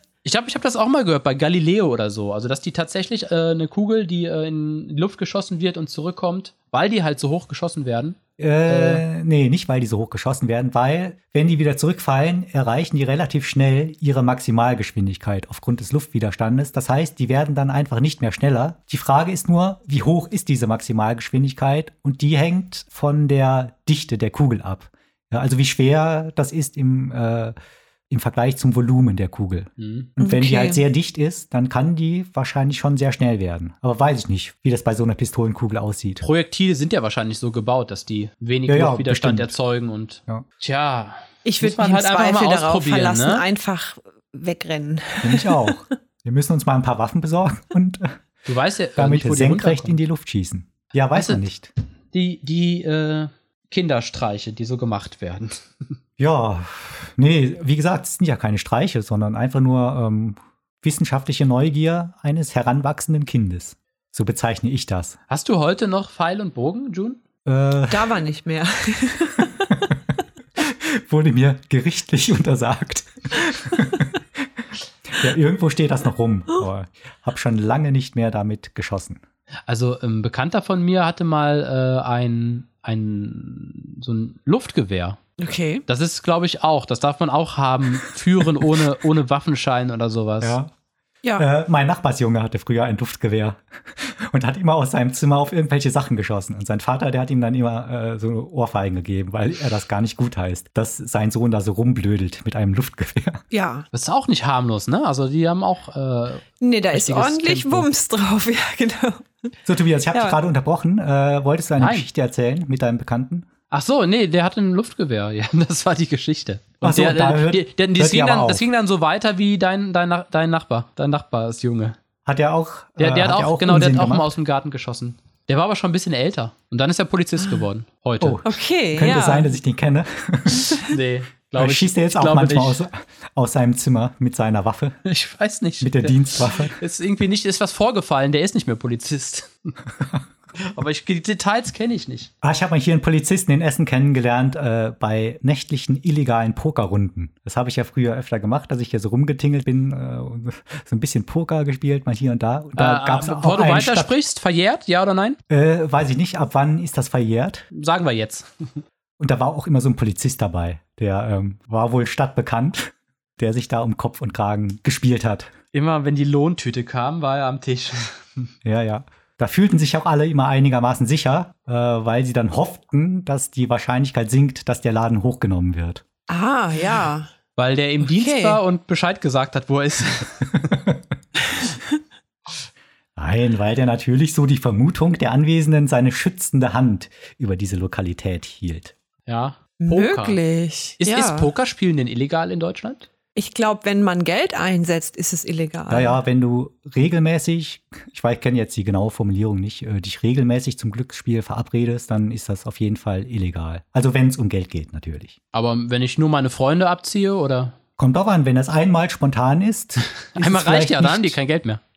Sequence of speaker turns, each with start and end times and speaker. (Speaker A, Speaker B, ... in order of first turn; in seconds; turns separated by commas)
Speaker A: 0.2-9.0, Speaker B: 8.4-27.5, Speaker B: 28.1-36.2, Speaker A: 29.8-30.1, Speaker C: 30.2-30.8, Speaker A: 36.2-43.5, Speaker B: 38.7-39.5, Speaker C: 41.4-45.9, Speaker B: 45.2-48.1, Speaker A: 48.5-50.0, Speaker B: 49.0-51.7, Speaker A: 51.1-51.4, Speaker A: 52.1-55.6, Speaker B: 56.2-65.2, Speaker A: 65.3-67.2, Speaker B: 67.5-68.1, Speaker C: 67.9-69.9, Speaker B: 70.6-74.5, Speaker B: 75.1-79.2, Speaker A: 79.7-85.2, Speaker C: 85.4-85.8, Speaker A: 85.9-90.5, Speaker B: 90.4-90.7, Speaker B: 91.4-103.4, Speaker C: 103.5-103.9, Speaker A: 103.9-107.9, Speaker C: 106.6-109.5, Speaker B: 109.7-113.5, Speaker A: 111.8-112.1, Speaker A: 113.7-122.0, Speaker B: 116.8-118.6, Speaker B: 122.2-124.3, Speaker A: 123.0-128.4, Speaker B: 128.2-130.9, Speaker C: 128.4-129.6, Speaker A: 130.8-132.8, Speaker B: 131.6-135.0, Speaker A: 135.1-139.7, Speaker B: 135.8-136.8, Speaker A: 140.6-142.3, Speaker B: 142.4-154.1, Speaker A: 152.8-155.4, Speaker B: 155.5-157.6, Speaker A: 157.7-158.8, Speaker B: 159.2-165.5, Speaker A: 165.7-168.5, Speaker B: 168.6-176.0, Speaker C: 176.3-177.3, Speaker A: 177.6-180.7, Speaker C: 178.0-178.6, Speaker B: 180.6-181.0, Speaker B: 183.2-188.9, Speaker A: 189.3-190.4, Speaker C: 189.8-191.5, Speaker A: 191.0-193.1, Speaker C: 193.3-196.2, Speaker B: 195.9-205.4, Speaker A: 205.5-207.8, Speaker B: 208.0-211.3, Speaker A: 210.2-211.8